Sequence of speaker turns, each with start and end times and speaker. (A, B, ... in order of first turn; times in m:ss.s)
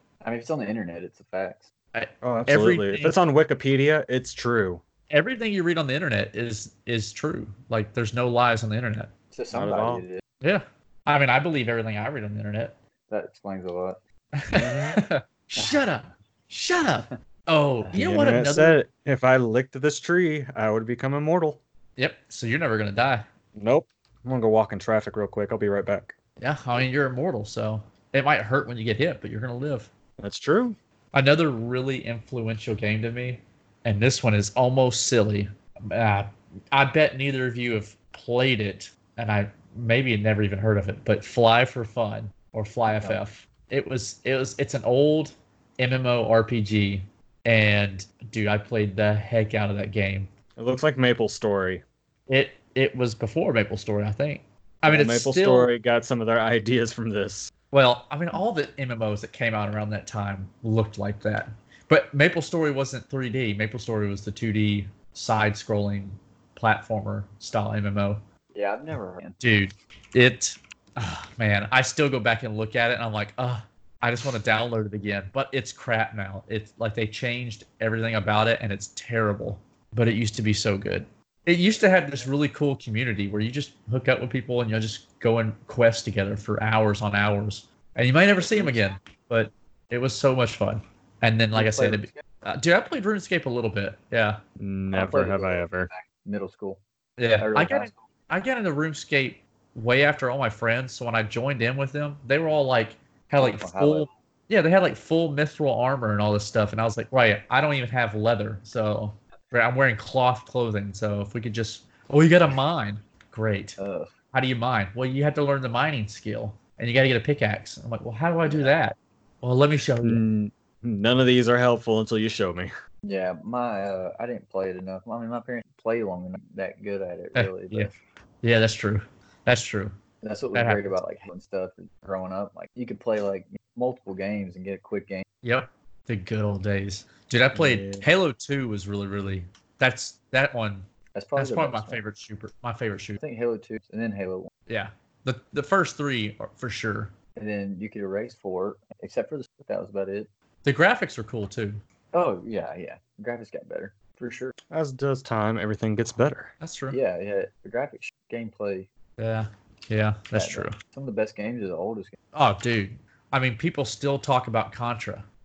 0:00.2-0:01.7 A
0:01.9-0:03.2 B
0:02.2-0:04.8 C
0:05.1-0:09.1 B
0:09.3-0:10.2 A
0:09.5-0:10.0 C
0:10.4-0:12.8 B
0:13.1-0:14.0 A
0:14.4-0:18.8 B
0:14.5-0:15.0 C
0:17.9-0:21.6 C
0:22.0-0:23.2 B
0:23.5-0:26.2 C
0:26.4-0:29.9 B
0:30.2-0:30.8 C
0:31.1-0:50.3 B
0:42.9-0:43.2 A
0:50.6-0:51.8 C
0:52.3-0:55.7 B
0:54.9-0:57.5 C
0:57.7-1:08.2 B
1:08.5-1:09.4 A
1:09.4-1:34.4 B
1:28.4-1:28.9 A
1:31.5-1:32.2 A
1:34.6-1:35.9 C
1:34.9-1:36.8 A
1:37.2-1:53.8 B
1:37.4-1:38.0 A
1:43.4-1:44.1 A
1:53.8-1:54.1 A
1:54.3-2:00.2 B
1:58.4-1:58.7 A
2:00.0-2:02.7 C
2:03.0-2:08.0 A
2:07.4-2:07.9 B
2:08.4-2:09.9 B
2:10.2-2:15.2 A
2:10.5-2:10.9 B
2:15.4-2:23.2 B
2:17.5-2:18.1 C
2:21.1-2:22.0 A
2:23.2-2:24.5 A
2:24.7-2:27.1 B
2:27.4-2:30.3 A
2:30.6-2:31.8 B
2:32.1-2:34.5 A
2:34.7-2:36.5 C
2:36.6-2:37.0 B
2:36.9-2:38.9 A
2:39.2-2:40.8 B
2:40.3-2:42.2 A
2:42.3-2:45.2 B